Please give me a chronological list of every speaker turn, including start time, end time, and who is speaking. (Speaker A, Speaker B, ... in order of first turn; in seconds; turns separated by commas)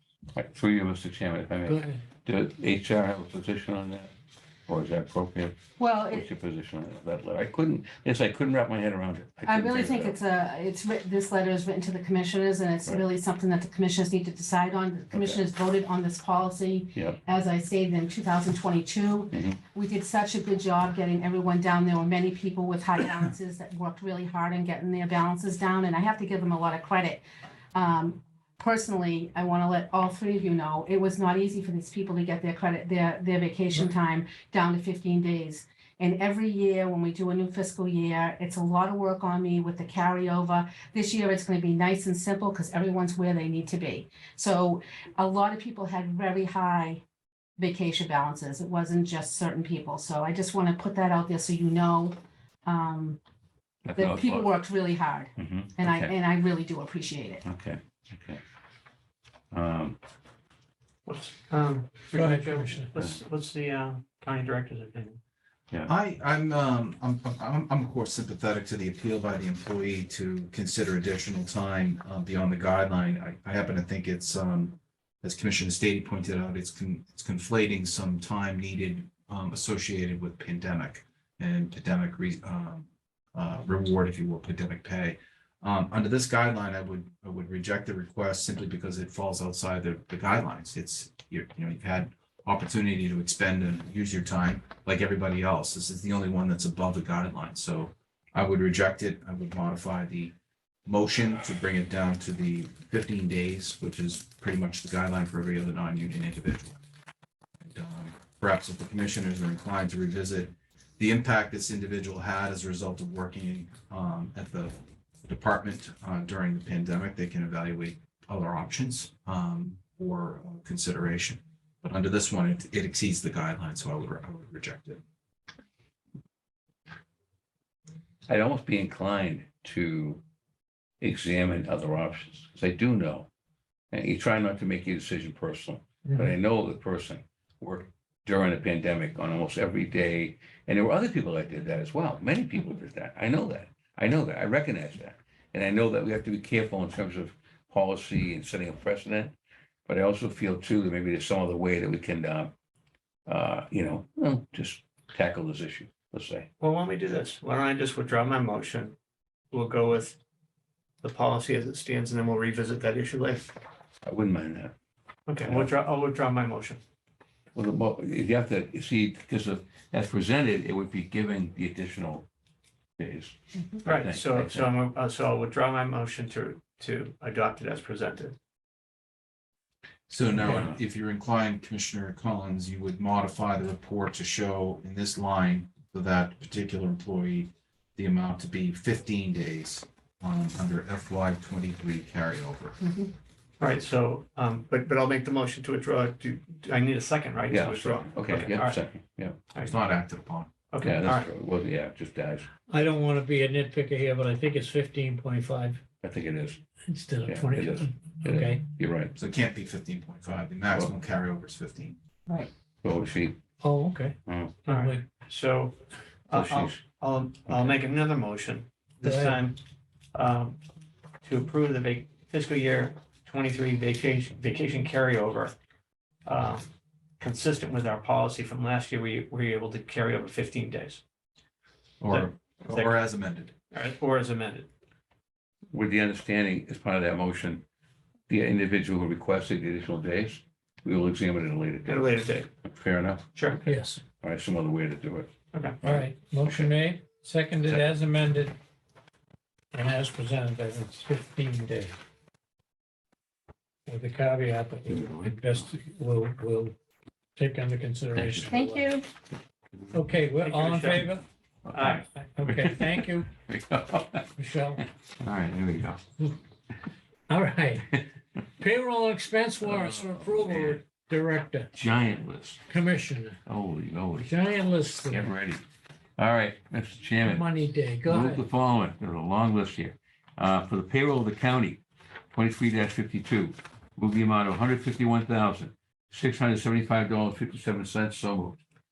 Speaker A: 0.3-4.1, Speaker B: 1.7-2.0, Speaker A: 4.7-5.5, Speaker C: 5.8-6.2, Speaker A: 6.0-10.2, Speaker C: 9.4-27.2, Speaker A: 15.1-15.4, Speaker C: 27.7-47.0, Speaker C: 47.6-53.2, Speaker A: 53.8-54.6, Speaker C: 53.9-57.4, Speaker A: 55.4-56.1, Speaker A: 57.4-58.4, Speaker A: 59.5-60.0, Speaker D: 61.0-65.2, Speaker B: 62.1-62.9, Speaker E: 65.8-100.3, Speaker E: 100.8-106.8, Speaker E: 107.7-125.0, Speaker A: 128.3-130.2, Speaker A: 131.0-133.3, Speaker A: 133.9-149.3, Speaker A: 149.9-152.5, Speaker A: 153.3-156.5, Speaker D: 156.6-158.9, Speaker D: 159.5-160.2, Speaker D: 161.0-163.5, Speaker A: 164.0-164.7, Speaker D: 165.3-166.8, Speaker A: 165.4-165.7, Speaker A: 167.5-172.3, Speaker A: 173.0-174.7, Speaker D: 173.8-178.3, Speaker E: 180.1-192.8, Speaker A: 180.4-180.8, Speaker C: 192.8-193.1, Speaker D: 193.6-198.8, Speaker A: 197.5-199.4, Speaker E: 199.6-200.5, Speaker D: 200.7-201.3, Speaker A: 200.8-202.5, Speaker B: 202.7-205.8, Speaker A: 206.0-206.6, Speaker B: 206.9-208.6, Speaker A: 207.2-209.1, Speaker E: 209.1-212.0, Speaker A: 212.4-213.4, Speaker B: 213.6-215.1, Speaker A: 214.2-214.5, Speaker D: 214.7-215.8, Speaker D: 216.3-219.6, Speaker A: 216.3-216.8, Speaker A: 217.5-217.8, Speaker B: 219.0-219.4, Speaker D: 220.1-220.6, Speaker D: 221.2-225.5, Speaker D: 226.2-226.7, Speaker D: 227.2-231.0, Speaker E: 232.0-233.5, Speaker D: 232.1-232.9, Speaker D: 233.7-234.7, Speaker A: 235.7-237.7, Speaker A: 238.3-242.1, Speaker D: 241.8-242.5, Speaker A: 242.6-243.3, Speaker D: 243.3-243.6, Speaker B: 243.6-244.0, Speaker A: 244.2-245.3, Speaker D: 245.5-245.8, Speaker A: 245.8-246.7, Speaker B: 245.8-248.6, Speaker B: 249.7-251.9, Speaker B: 253.8-256.7, Speaker A: 254.9-255.3, Speaker B: 257.4-258.9, Speaker A: 258.1-258.6, Speaker C: 258.5-259.1, Speaker B: 259.9-261.2, Speaker D: 260.4-261.1, Speaker A: 261.7-264.2, Speaker D: 261.7-262.1, Speaker B: 262.1-263.3, Speaker B: 264.4-264.9, Speaker A: 265.2-266.0, Speaker B: 267.3-268.1, Speaker B: 268.6-271.7, Speaker A: 269.6-270.8, Speaker A: 271.7-272.6, Speaker B: 272.7-273.4, Speaker A: 273.4-274.3, Speaker B: 274.2-275.3, Speaker A: 275.1-275.6, Speaker A: 276.2-288.6, Speaker B: 277.2-278.4